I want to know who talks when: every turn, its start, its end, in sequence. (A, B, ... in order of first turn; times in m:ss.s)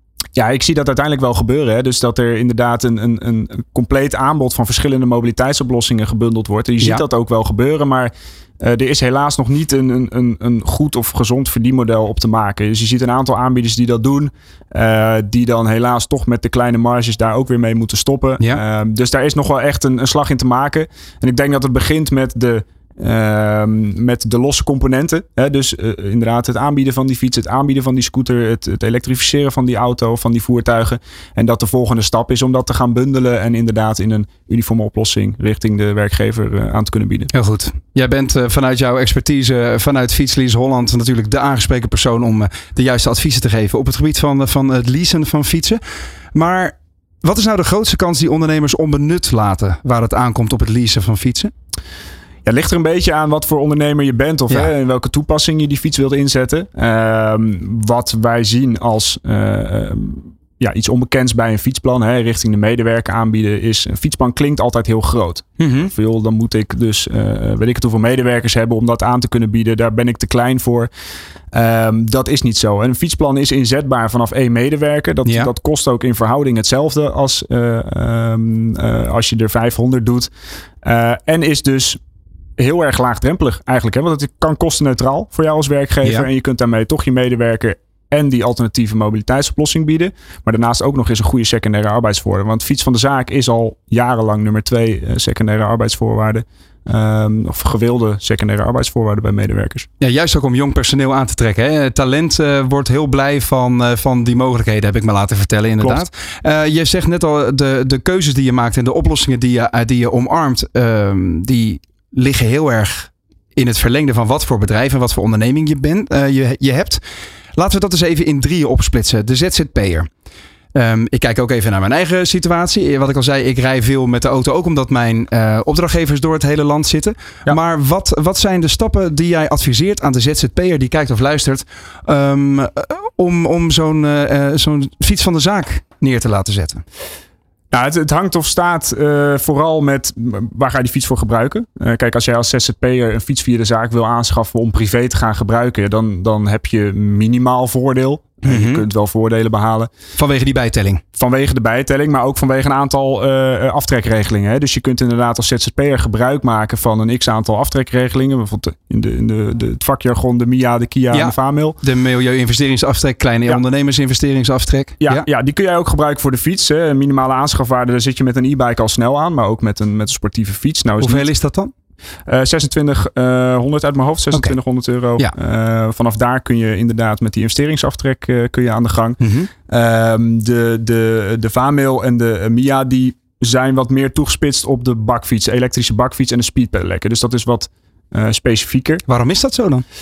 0:00.4-0:37.3 A
0:37.3-0:45.8 B
0:46.4-0:51.5 B
0:52.4-1:10.9 A
1:05.6-1:05.9 B
1:11.5-1:20.3 A
1:15.2-1:15.5 B
1:20.8-1:22.0 A
1:22.6-1:39.9 A
1:40.0-1:57.0 B
1:45.8-1:46.1 A
1:57.6-2:00.1 B
2:00.8-2:16.8 B
2:17.7-2:29.9 A
2:28.4-2:28.9 B
2:30.2-2:31.0 B
2:31.2-2:41.8 A
2:41.1-2:45.3 B
2:45.0-2:51.3 A
2:51.0-2:51.7 B
2:52.3-3:09.0 A
2:59.2-2:59.5 B
3:09.1-3:09.8 B